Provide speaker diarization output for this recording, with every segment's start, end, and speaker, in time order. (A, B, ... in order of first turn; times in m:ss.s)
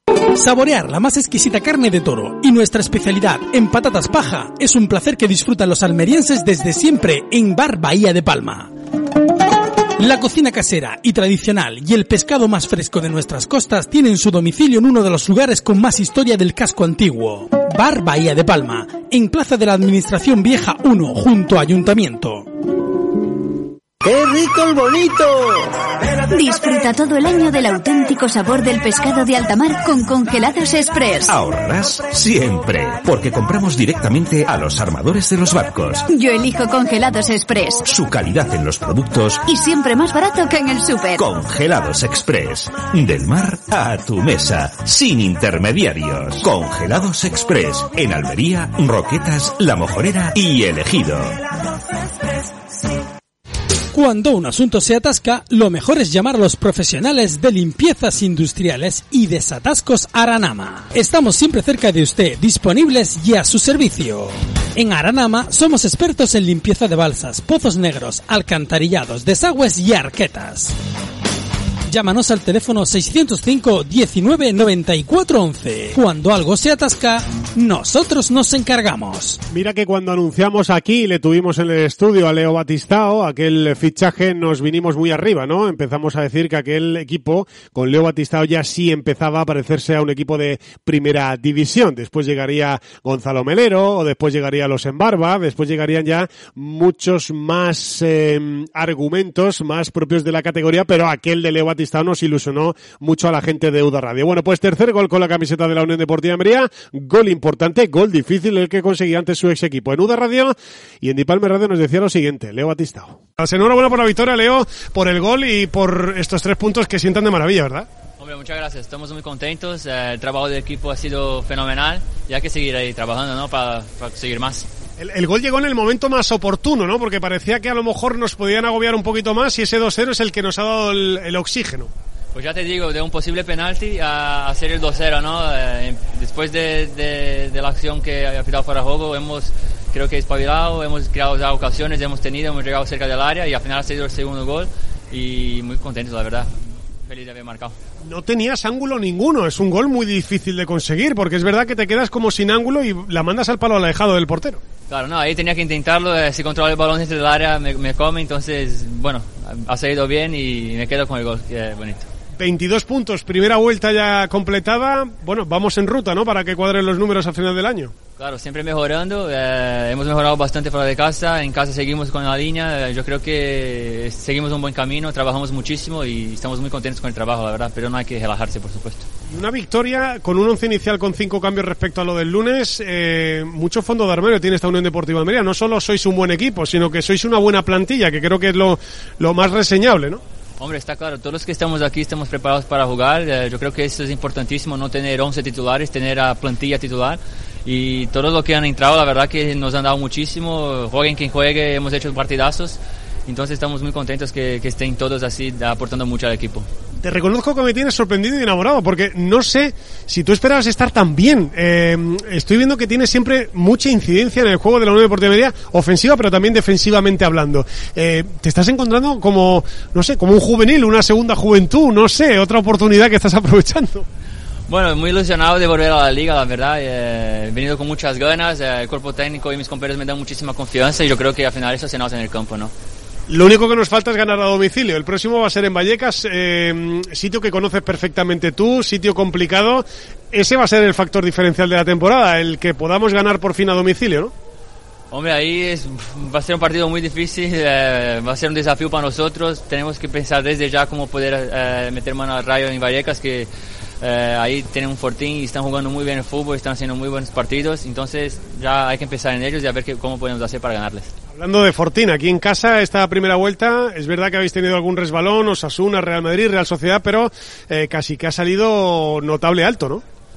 0:00.4-0:08.7 A
0:10.0-0:22.5 A
0:26.3-0:31.3 B
0:31.3-0:36.1 C
0:36.1-0:37.8 B
0:37.8-0:39.4 C
0:39.5-0:41.2 B
0:41.1-0:51.4 C
0:53.9-1:10.7 A
1:11.9-1:19.4 A
1:19.5-1:57.9 D
1:58.2-2:04.7 E
2:05.0-2:11.9 D
2:12.3-2:26.5 E
2:27.1-2:27.8 E
2:28.0-2:34.6 D
2:34.9-2:42.1 E
2:42.4-2:47.9 D
2:48.2-2:59.1 E
2:59.3-3:10.2 D
3:10.6-3:26.7 E
3:27.0-3:44.1 D
3:44.7-3:52.7 E
3:53.3-4:04.3 D
4:05.1-4:13.5 E
4:14.0-4:21.1 E
4:21.3-4:30.0 D